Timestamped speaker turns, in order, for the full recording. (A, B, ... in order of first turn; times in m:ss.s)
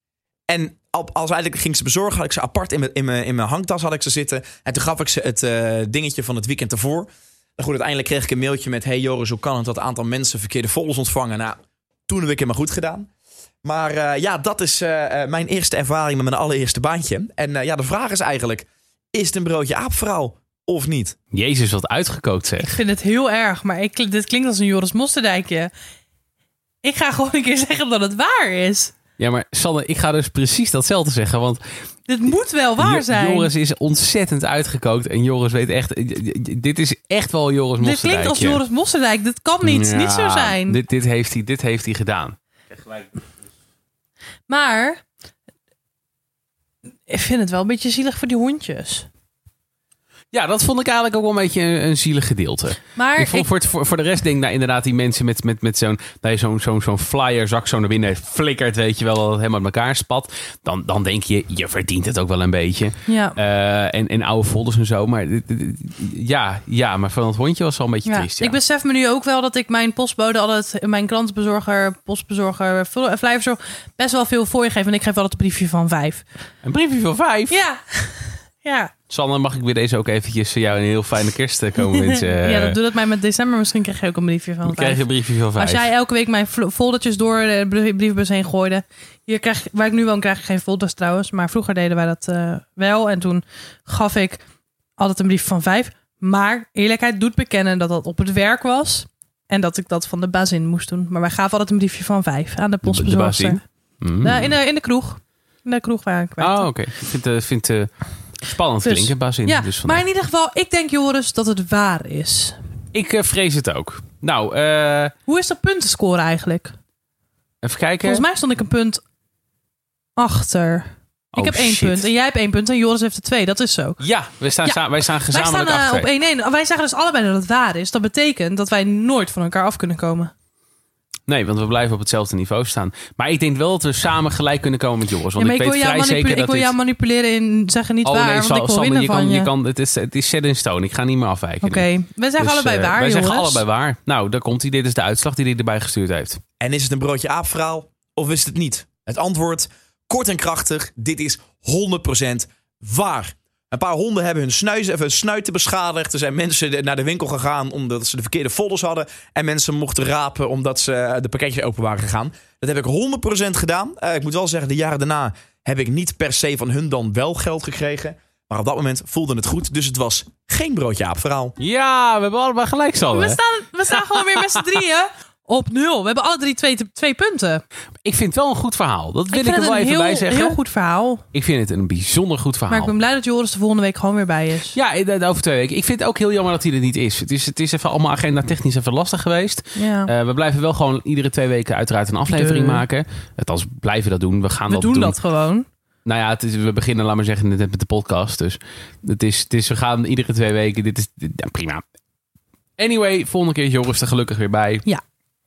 0:00.5-0:13.1 A
0:13.6-0:21.2 A
0:21.3-0:22.8 B
0:22.6-0:25.7 C
0:26.8-0:28.9 C
0:29.2-0:31.6 B
0:32.1-0:33.5 C
0:32.8-0:38.6 B
0:37.8-0:40.8 C
0:39.6-0:43.2 B
0:44.5-0:45.0 C
0:47.1-0:49.1 C
0:50.3-1:08.6 B
0:53.0-0:53.5 C
1:03.1-1:03.4 C
1:08.1-1:16.2 C
1:16.6-1:17.6 B
1:17.5-1:18.9 C
1:19.1-1:22.8 B
1:21.8-1:25.0 C
1:24.6-1:25.9 B
1:25.6-1:34.4 C
1:35.0-1:43.6 C
1:42.8-1:44.6 B
1:44.2-1:46.7 C
1:46.4-1:50.0 B
1:48.8-1:52.6 C
1:52.9-1:55.1 B
1:55.3-1:56.8 C
1:57.6-1:58.2 B
1:58.0-1:59.0 C
2:00.2-2:04.0 C
2:01.3-2:02.1 B
2:04.0-2:06.1 B
2:04.6-2:10.3 C
2:11.3-2:16.7 B
2:15.4-2:19.5 C
2:18.0-2:21.9 B
2:21.6-2:23.6 C
2:22.4-2:26.4 B
2:26.6-2:51.6 A
2:51.6-2:53.4 B
2:53.1-2:57.6 C
2:58.0-3:00.6 B
2:59.3-3:01.2 C
3:01.3-3:02.9 B
3:02.7-3:04.8 C
3:04.7-3:15.2 B
3:09.8-3:10.1 C
3:12.3-3:12.8 C
3:14.7-3:15.7 C
3:16.0-3:21.8 B
3:22.8-3:24.9 B